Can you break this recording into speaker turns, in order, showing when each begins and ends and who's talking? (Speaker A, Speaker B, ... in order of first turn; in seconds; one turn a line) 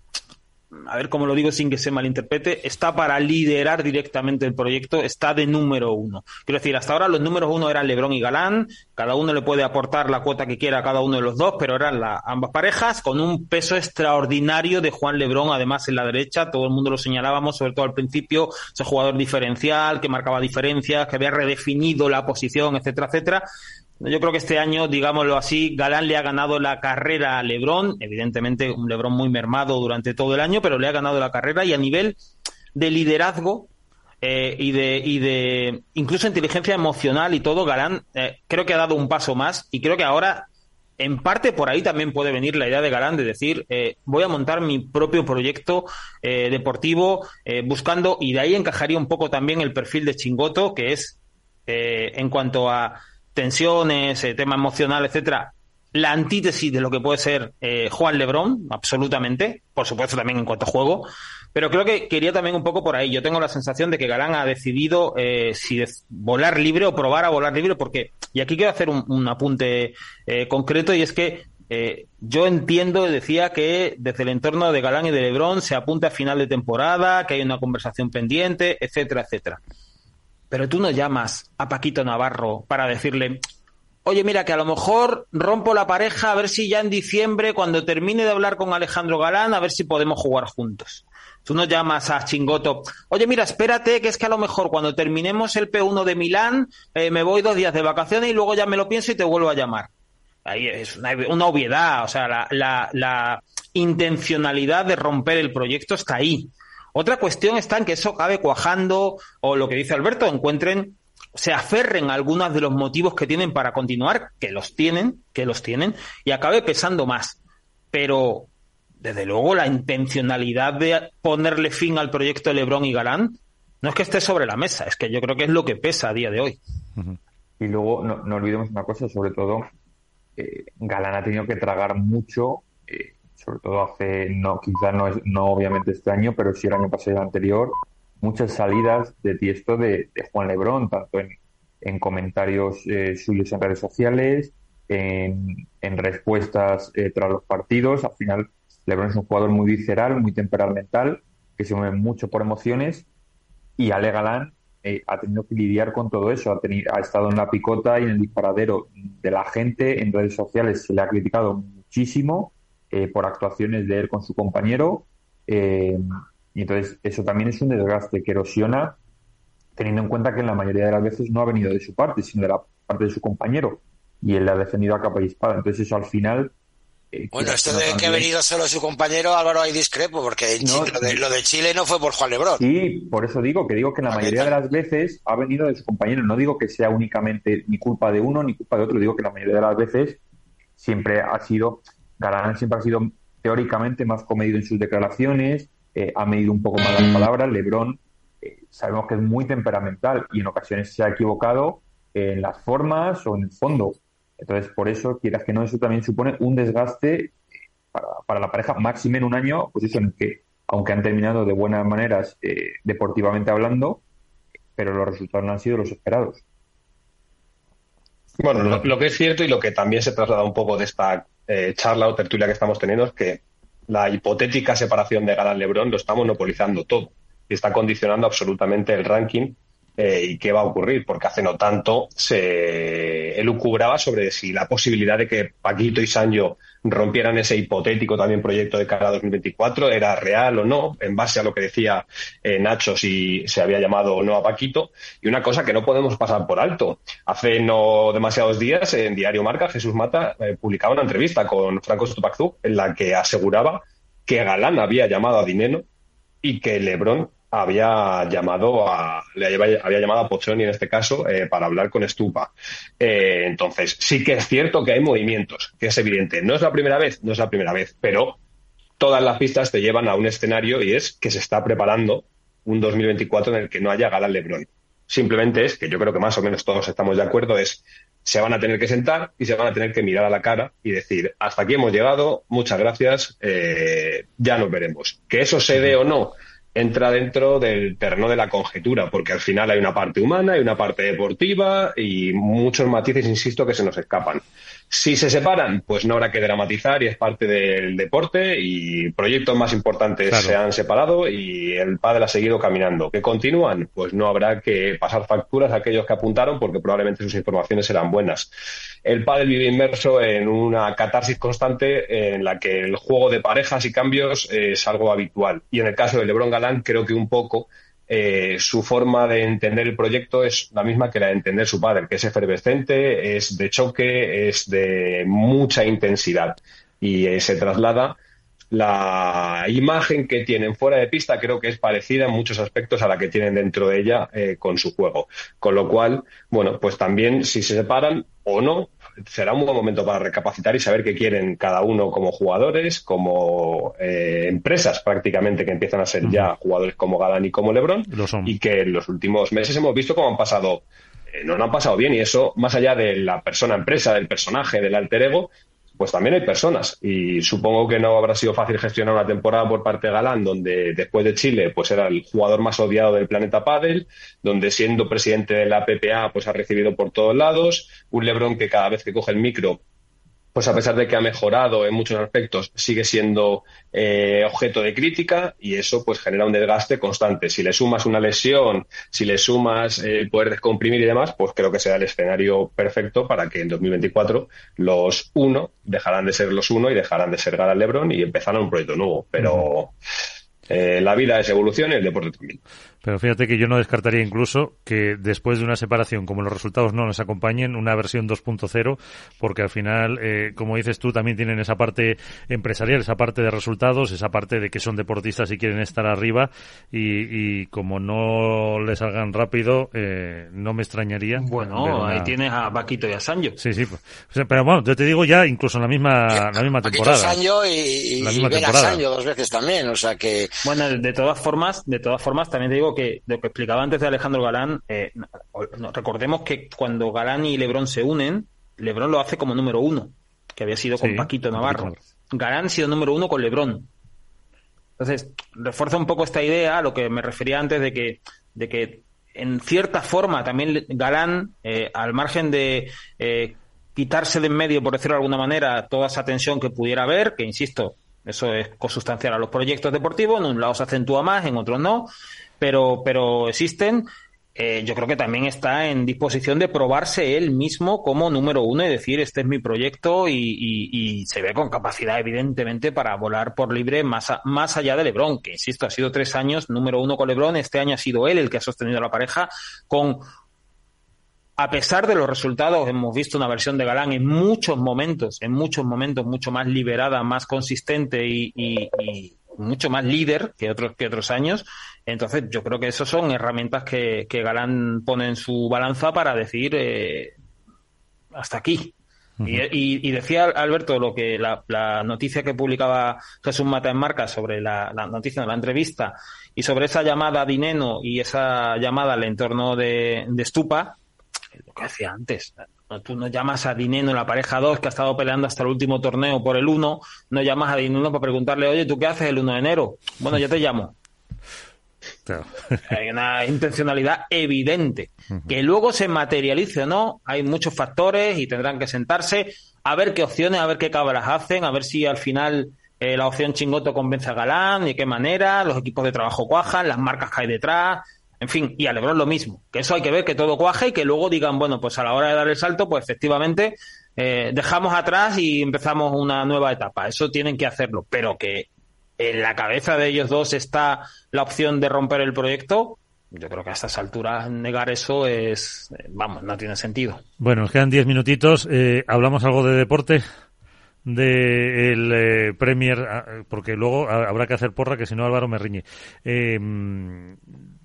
Speaker A: 0.8-23.5
Speaker A: 24.0-32.2
Speaker A: 32.8-33.7
Speaker A: 34.2-40.5
Speaker A: 41.0-51.2
Speaker A: 51.7-79.6
Speaker A: 80.5-83.4
Speaker A: 84.0-99.9
Speaker A: 100.5-117.4
Speaker A: 117.9-126.6
Speaker B: 127.6-129.7
Speaker B: 130.4-153.1
Speaker B: 153.8-169.0
Speaker B: 169.8-176.5
Speaker B: 177.1-178.3
Speaker C: 177.3-182.6
Speaker B: 180.6-181.2
Speaker B: 182.6-190.2
Speaker C: 184.1-184.5
Speaker B: 190.8-207.3
Speaker B: 207.9-214.0
Speaker B: 214.8-216.4
Speaker D: 218.4-255.8
Speaker D: 256.4-268.4
Speaker D: 269.0-308.5
Speaker E: 300.3-300.6
Speaker D: 309.1-328.2
Speaker D: 328.7-369.8
Speaker E: 348.1-348.5
Speaker D: 370.6-389.9
Speaker E: 389.4-389.7
Speaker D: 390.7-392.6
Speaker E: 393.0-412.3
Speaker A: 411.4-413.6
Speaker E: 413.6-417.4
Speaker C: 416.3-420.6
Speaker E: 418.2-419.0
Speaker A: 420.6-433.9
Speaker E: 431.0-432.0
Speaker A: 435.0-470.3
Speaker A: 471.6-487.4
Speaker A: 488.3-501.0
Speaker A: 501.6-510.9
Speaker E: 512.3-512.8
Speaker A: 512.9-538.7
Speaker A: 539.2-547.2
Speaker E: 547.4-550.2
Speaker E: 551.1-557.4